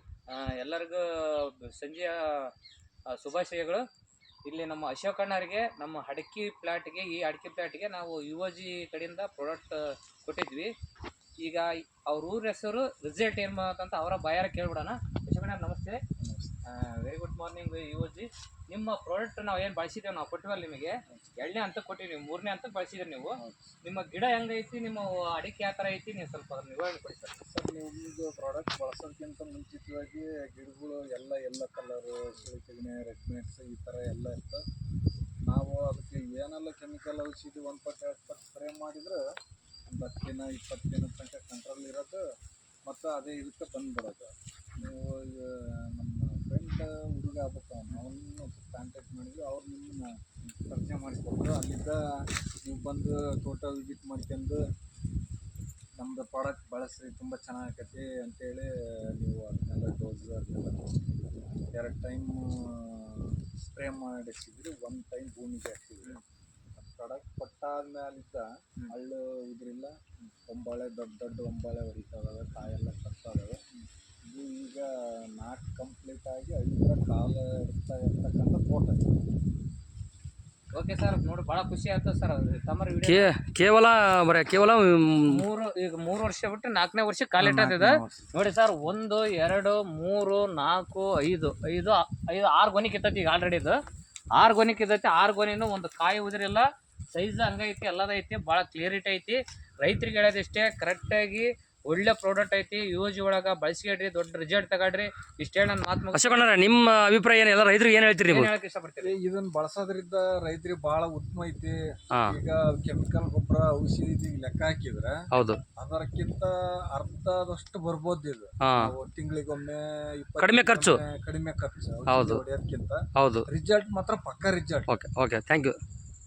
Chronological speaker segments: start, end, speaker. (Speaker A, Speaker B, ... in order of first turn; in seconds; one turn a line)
Speaker A: 0.3-2.5
Speaker A: 3.1-3.8
Speaker A: 4.4-10.7
Speaker A: 11.4-16.0
Speaker B: 16.2-16.5
Speaker A: 16.7-27.4
Speaker B: 23.3-23.7
Speaker B: 27.4-34.6
Speaker B: 35.5-39.2
Speaker B: 39.9-42.2
Speaker B: 42.9-52.0
Speaker B: 52.6-54.6
Speaker B: 56.0-60.8
Speaker B: 61.7-66.2
Speaker B: 66.8-73.6
Speaker B: 74.3-79.0
Speaker A: 80.7-83.3
Speaker C: 83.0-85.4
Speaker A: 85.3-93.8
Speaker C: 87.4-88.0
Speaker A: 94.3-106.6
Speaker C: 106.1-108.5
Speaker A: 108.3-109.1
Speaker B: 109.0-115.1
Speaker C: 112.1-112.4
Speaker C: 115.3-115.6
Speaker B: 115.8-124.9
Speaker C: 118.6-118.9
Speaker C: 120.4-121.0
Speaker C: 122.1-122.4
Speaker C: 123.2-123.5
Speaker C: 124.9-125.8